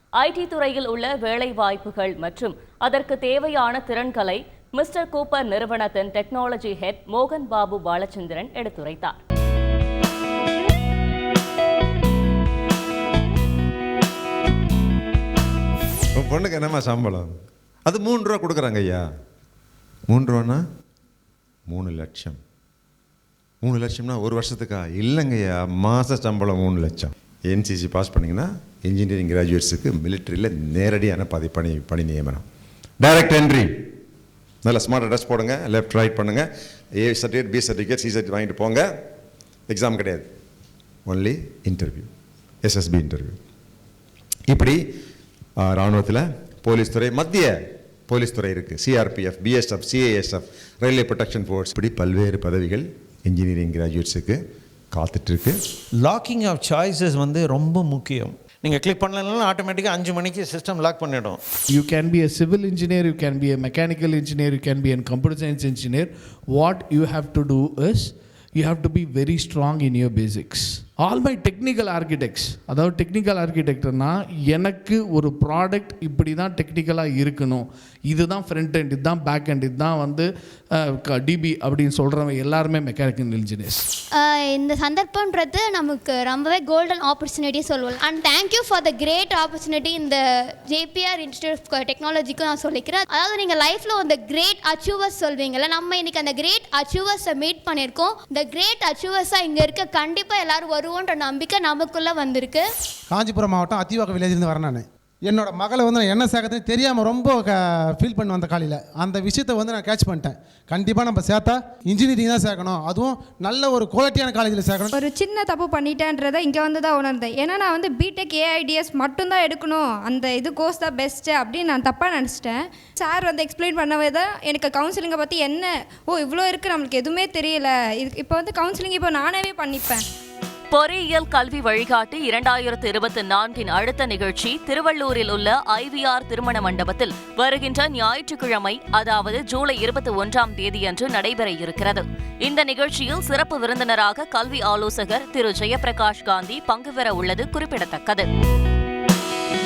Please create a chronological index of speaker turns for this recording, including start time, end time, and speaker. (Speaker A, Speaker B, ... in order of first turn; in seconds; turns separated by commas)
Speaker A: 0.2-9.2, Speaker B: 16.1-17.3, Speaker B: 17.9-19.0, Speaker B: 20.1-20.6, Speaker B: 21.7-22.4, Speaker B: 23.6-32.4, Speaker B: 33.0-33.7, Speaker B: 34.6-36.5, Speaker B: 37.0-38.8, Speaker B: 39.7-40.3, Speaker B: 41.1-42.1, Speaker B: 42.6-43.4, Speaker B: 44.5-44.8, Speaker B: 45.6-47.5, Speaker B: 48.1-54.4, Speaker B: 54.9-55.6, Speaker C: 56.0-61.4, Speaker D: 61.7-83.8, Speaker E: 84.1-102.7, Speaker F: 103.1-114.9, Speaker G: 114.9-130.0, Speaker A: 130.7-148.3